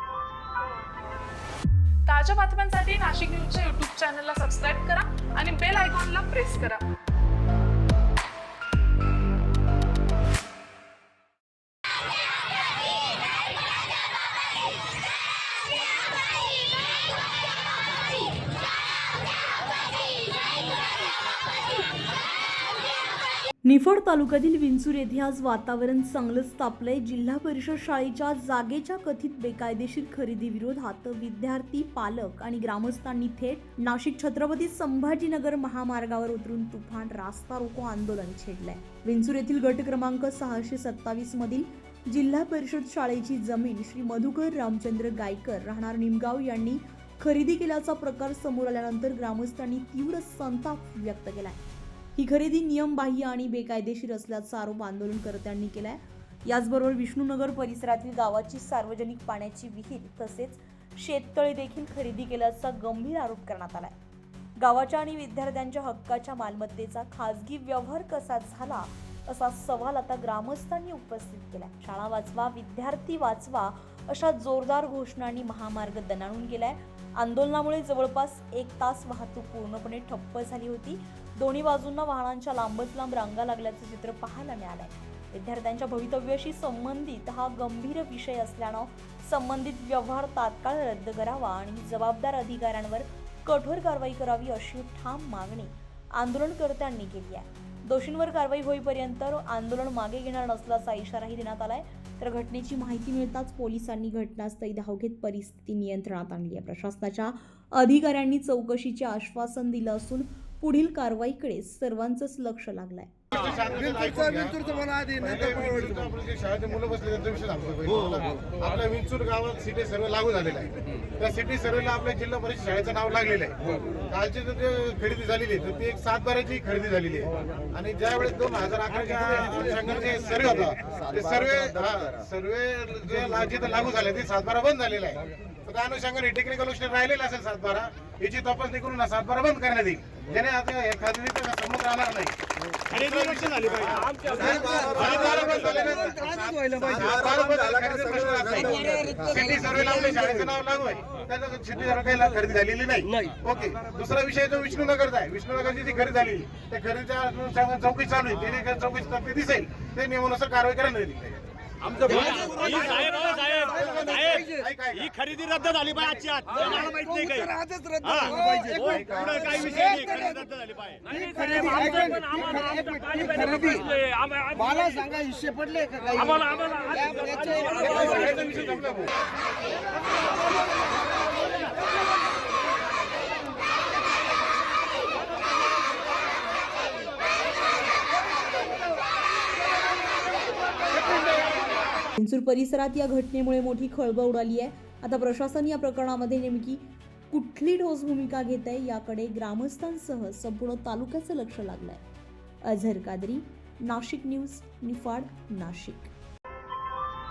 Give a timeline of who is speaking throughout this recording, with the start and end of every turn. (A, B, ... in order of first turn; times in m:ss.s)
0:02.1-0:06.8 A
0:23.6-0:51.6 B
0:52.1-1:03.9 B
1:04.6-1:53.1 B
1:53.3-1:54.6 C
1:54.4-1:55.3 D
1:55.2-2:22.3 C
2:22.9-2:45.1 C
2:22.9-2:24.1 E
2:24.3-2:27.4 D
2:28.6-2:30.2 D
2:42.2-2:43.7 E
2:42.2-2:42.6 D
2:43.8-2:44.5 D
2:45.0-2:47.4 E
2:46.7-2:50.4 D
2:48.0-2:48.4 E
2:48.8-2:49.6 C
2:49.2-2:51.0 E
2:51.1-2:58.4 D
2:57.6-2:59.1 C
3:12.2-3:22.0 B
3:22.6-3:26.1 B